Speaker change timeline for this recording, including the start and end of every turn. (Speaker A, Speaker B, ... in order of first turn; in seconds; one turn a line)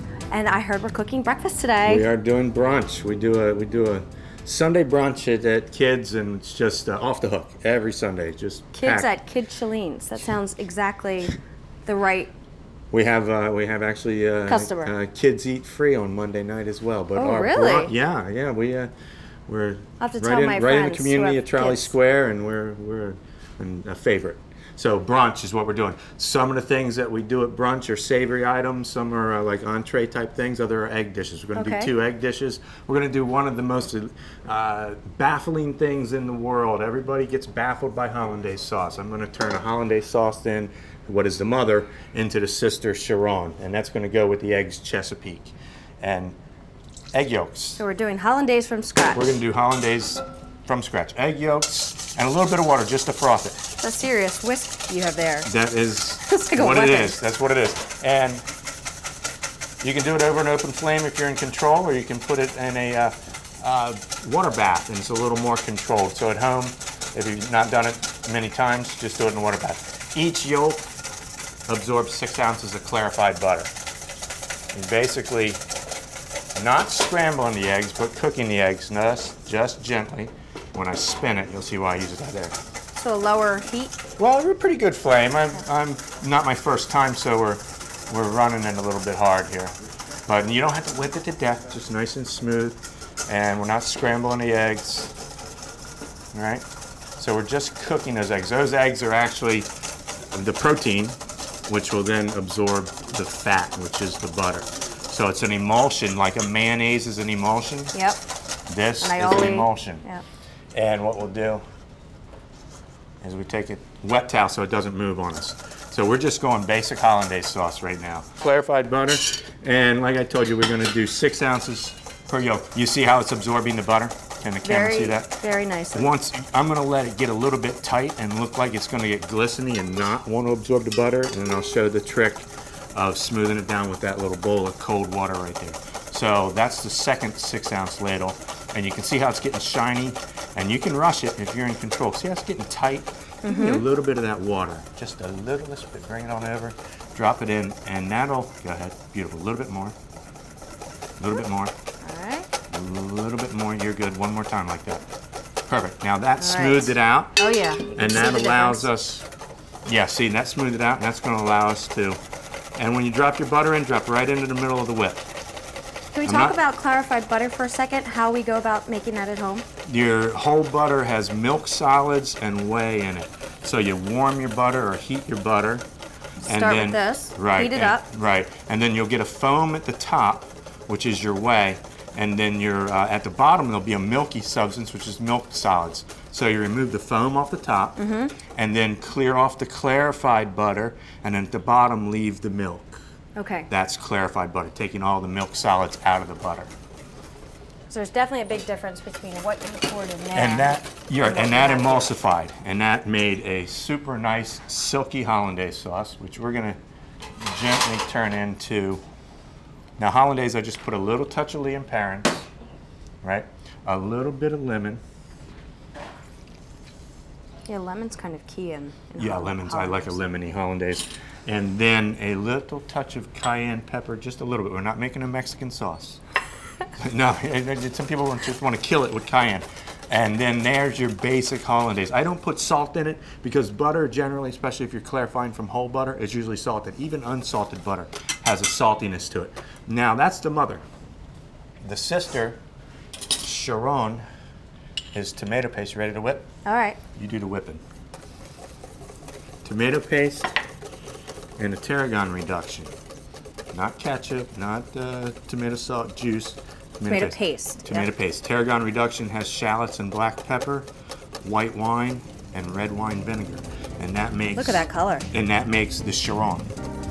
Speaker A: 0.3-2.0
Speaker B: 1.8-9.1
Speaker A: 8.7-12.3
Speaker B: 12.9-18.9
Speaker A: 14.5-14.9
Speaker A: 17.1-17.9
Speaker B: 19.5-46.4
Speaker A: 20.0-21.9
Speaker A: 31.5-31.9
Speaker B: 47.1-47.8
Speaker A: 47.8-49.3
Speaker B: 49.1-53.6
Speaker A: 53.8-55.5
Speaker B: 55.4-58.4
Speaker A: 56.2-57.2
Speaker B: 59.8-70.9
Speaker B: 71.7-73.7
Speaker B: 74.7-75.6
Speaker B: 76.5-82.5
Speaker A: 83.0-84.0
Speaker B: 84.2-89.7
Speaker B: 90.3-95.1
Speaker B: 96.3-96.6
Speaker B: 97.2-99.7
Speaker B: 100.3-107.9
Speaker A: 107.9-108.2
Speaker B: 108.7-110.0
Speaker A: 109.0-110.2
Speaker B: 110.7-111.6
Speaker B: 113.2-125.3
Speaker A: 124.6-126.1
Speaker B: 125.9-149.9
Speaker A: 143.4-143.8
Speaker B: 151.2-151.7
Speaker A: 152.0-152.5
Speaker B: 152.7-155.1
Speaker B: 155.7-157.4
Speaker A: 156.4-158.9
Speaker B: 157.9-159.2
Speaker B: 159.8-162.2
Speaker B: 162.7-165.3
Speaker A: 166.1-169.7
Speaker B: 166.2-166.6
Speaker B: 169.8-175.8
Speaker A: 176.4-178.0
Speaker B: 176.4-193.0
Speaker A: 188.0-188.3
Speaker A: 193.3-193.7
Speaker B: 193.7-196.7
Speaker A: 197.9-202.1
Speaker B: 200.3-206.8
Speaker B: 207.4-209.0
Speaker B: 210.0-212.5
Speaker B: 213.2-215.0
Speaker A: 217.7-220.2
Speaker B: 219.2-226.2
Speaker B: 226.9-240.8
Speaker B: 241.8-242.6
Speaker B: 243.4-244.2
Speaker B: 245.1-246.5
Speaker A: 246.6-247.0
Speaker B: 247.2-247.8
Speaker B: 249.6-250.5
Speaker B: 251.6-252.9
Speaker B: 253.7-260.9
Speaker A: 257.1-258.1
Speaker B: 261.4-266.7
Speaker A: 264.5-265.3